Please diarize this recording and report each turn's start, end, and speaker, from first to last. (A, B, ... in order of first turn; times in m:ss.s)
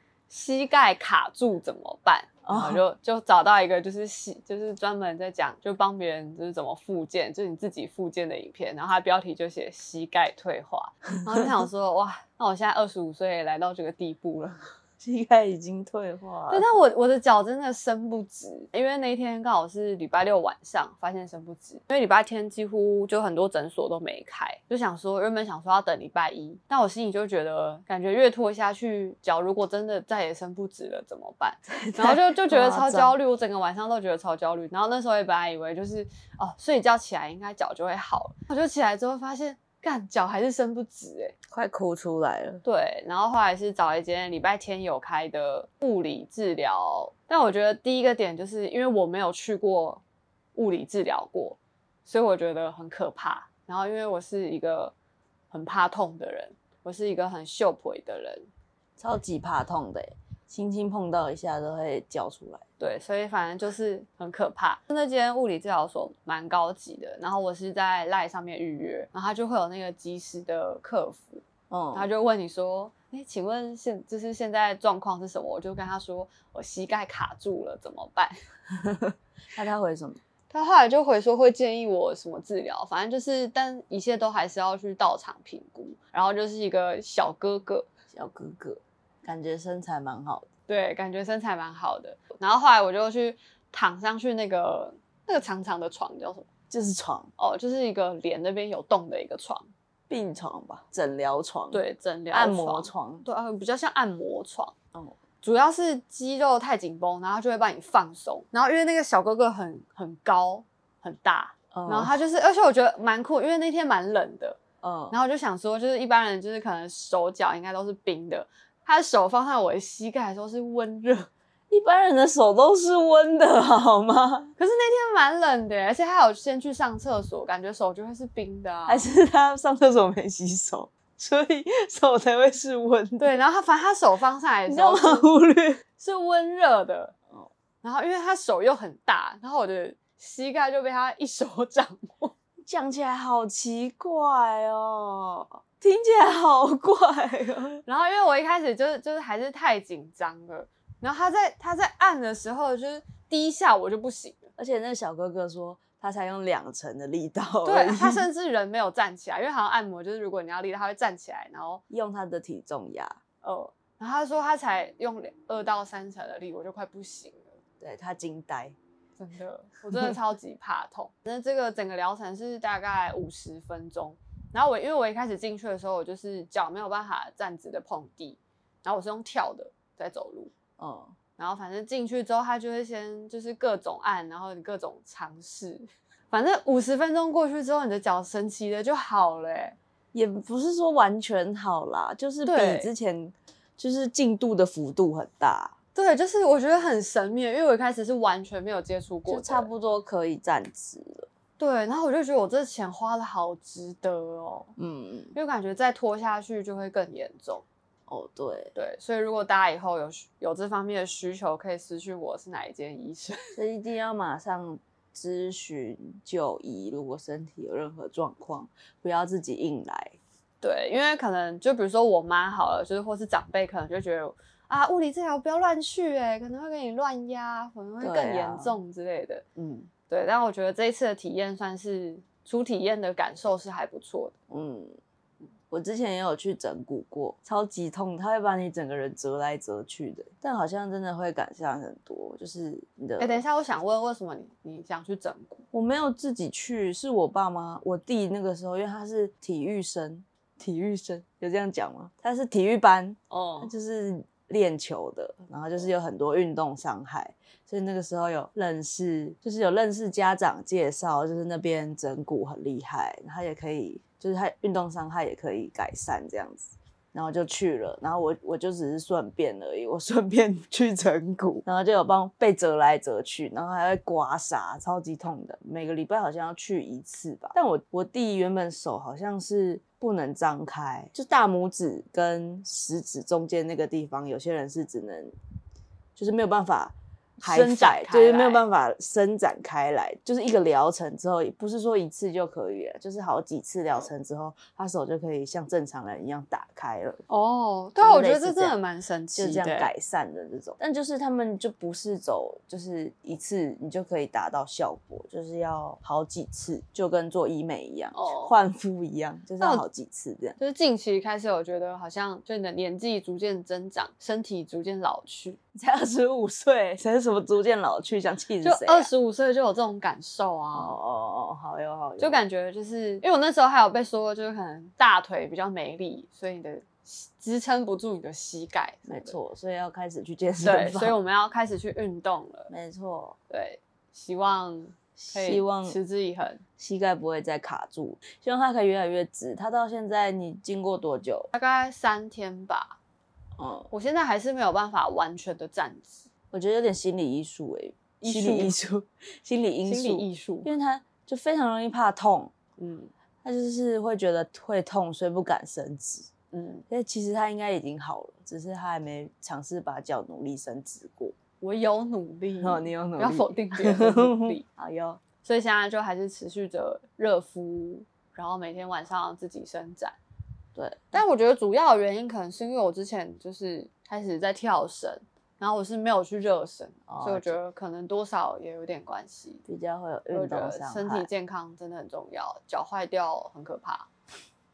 0:00.3-0:14.6 A
0:02.4-0:02.8 B
0:15.0-0:16.7 B
0:16.5-0:41.4 A
0:31.7-0:33.2 B
0:41.5-0:42.6 B
0:42.6-0:50.0 A
0:50.6-0:54.9 A
0:55.5-0:58.5 A
0:59.0-1:02.6 B
1:02.8-1:18.4 A
1:11.7-1:12.1 B
1:18.8-1:20.2 B
1:20.5-1:27.9 A
1:28.1-1:30.5 B
1:30.7-1:36.5 A
1:36.7-1:37.3 B
1:37.4-1:39.7 A
1:40.1-1:43.3 B
1:41.7-1:44.7 A
1:45.4-1:54.6 A
1:51.7-1:52.2 B
1:54.8-1:55.2 B
1:55.1-2:01.3 A
2:01.7-2:04.5 B
2:04.6-2:09.1 A
2:08.9-2:13.4 B
2:13.2-2:15.3 A
2:14.7-2:15.8 B
2:16.0-2:17.1 A
2:17.8-2:22.3 A
2:22.6-2:27.8 B
2:27.9-2:34.5 A
2:34.6-2:38.3 B
2:37.6-2:41.8 A
2:41.9-2:43.2 B
2:43.4-2:47.6 A
2:47.8-2:48.8 B
2:49.2-3:00.5 A
3:00.8-3:01.2 B
3:01.4-3:09.8 A
3:10.1-3:15.7 B
3:12.4-3:12.9 A
3:16.0-3:19.7 A
3:19.3-3:21.3 B
3:21.6-3:24.7 A
3:24.8-3:25.4 B
3:25.4-3:27.6 A
3:28.1-3:28.7 B
3:28.8-3:33.6 A
3:33.6-3:40.2 B
3:40.6-3:54.3 A
3:48.0-3:48.8 B
3:54.5-3:55.0 B
3:55.7-4:03.4 B
4:03.2-4:05.6 A
4:05.7-4:45.4 B
4:13.3-4:13.7 A
4:46.2-4:57.2 B
4:47.4-4:48.6 A
4:57.3-4:59.9 A
4:58.0-4:58.8 B
4:59.3-5:10.6 B
5:08.1-5:08.5 A
5:10.6-5:15.6 A
5:15.8-5:19.1 B
5:18.6-5:21.0 A
5:20.7-5:22.4 B
5:22.2-5:29.4 A
5:29.1-5:31.2 B
5:30.6-5:32.7 A
5:32.7-5:33.4 B
5:33.5-5:36.6 A
5:35.2-5:36.0 B
5:36.8-5:41.5 B
5:41.5-5:43.0 A
5:43.6-5:43.9 B
5:43.9-5:46.3 A
5:46.5-5:52.5 B
5:48.2-5:48.8 A
5:49.8-5:50.7 A
5:52.8-5:53.1 A
5:53.4-5:56.3 B
5:56.5-5:56.9 A
5:56.9-6:01.4 B
6:01.6-6:04.6 A
6:02.6-6:05.2 B
6:05.4-6:10.2 A
6:10.8-6:11.2 B
6:11.1-6:19.6 A
6:17.1-6:17.6 B
6:19.7-6:21.3 B
6:20.3-6:24.1 A